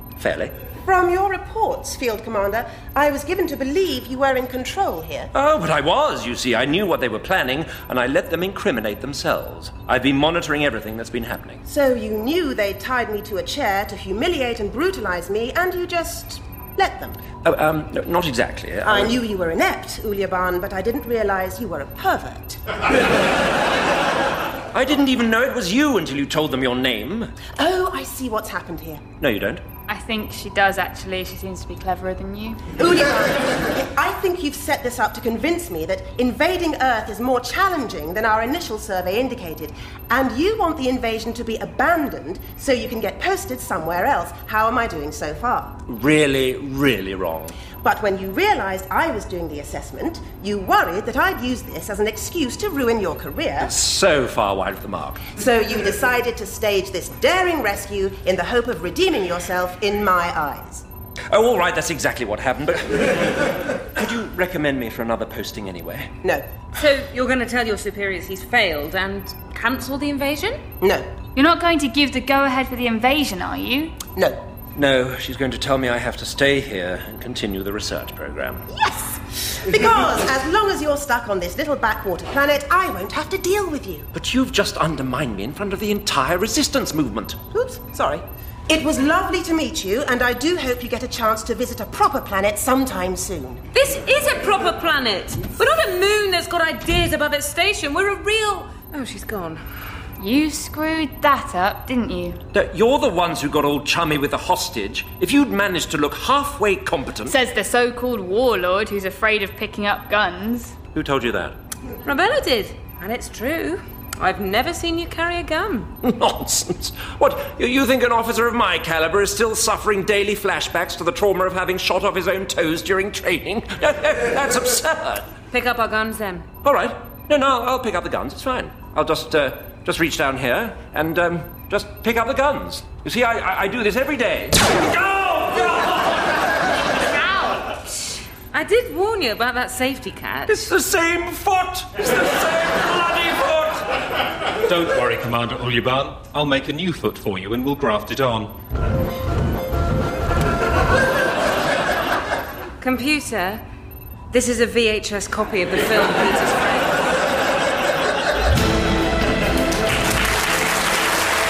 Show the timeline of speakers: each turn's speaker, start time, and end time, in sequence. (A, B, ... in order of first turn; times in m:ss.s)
0:00.2-0:00.5 A
0:00.8-0:05.3 B
0:05.3-0:11.6 A
0:11.7-0:17.2 B
0:17.4-0:19.2 A
0:18.8-0:22.6 B
0:24.7-0:27.3 A
0:27.6-0:29.0 B
0:29.2-0:29.6 A
0:29.9-0:32.6 C
0:32.8-0:45.8 B
0:45.9-0:47.6 A
0:47.8-0:53.7 B
0:53.6-0:55.3 A
0:55.3-1:00.8 B
1:01.3-1:06.1 A
1:06.7-1:10.6 D
1:10.8-1:11.1 B
1:11.3-1:14.0 C
1:14.2-1:14.4 B
1:14.7-1:18.7 A
1:18.7-1:24.1 B
1:24.1-1:27.4 A
1:27.5-1:33.6 B
1:33.7-1:39.6 D
1:40.2-1:42.4 C
1:42.5-1:47.3 A
1:47.3-1:50.7 C
1:50.9-1:51.6 A
1:52.0-1:55.9 D
1:56.0-2:05.3 A
2:05.5-2:06.5 D
2:06.6-2:16.2 A
2:17.1-2:18.1 C
2:18.5-2:20.6 D
2:20.5-2:23.8 A
2:24.7-2:28.6 E
2:32.8-2:33.6 D
2:34.3-2:37.0 D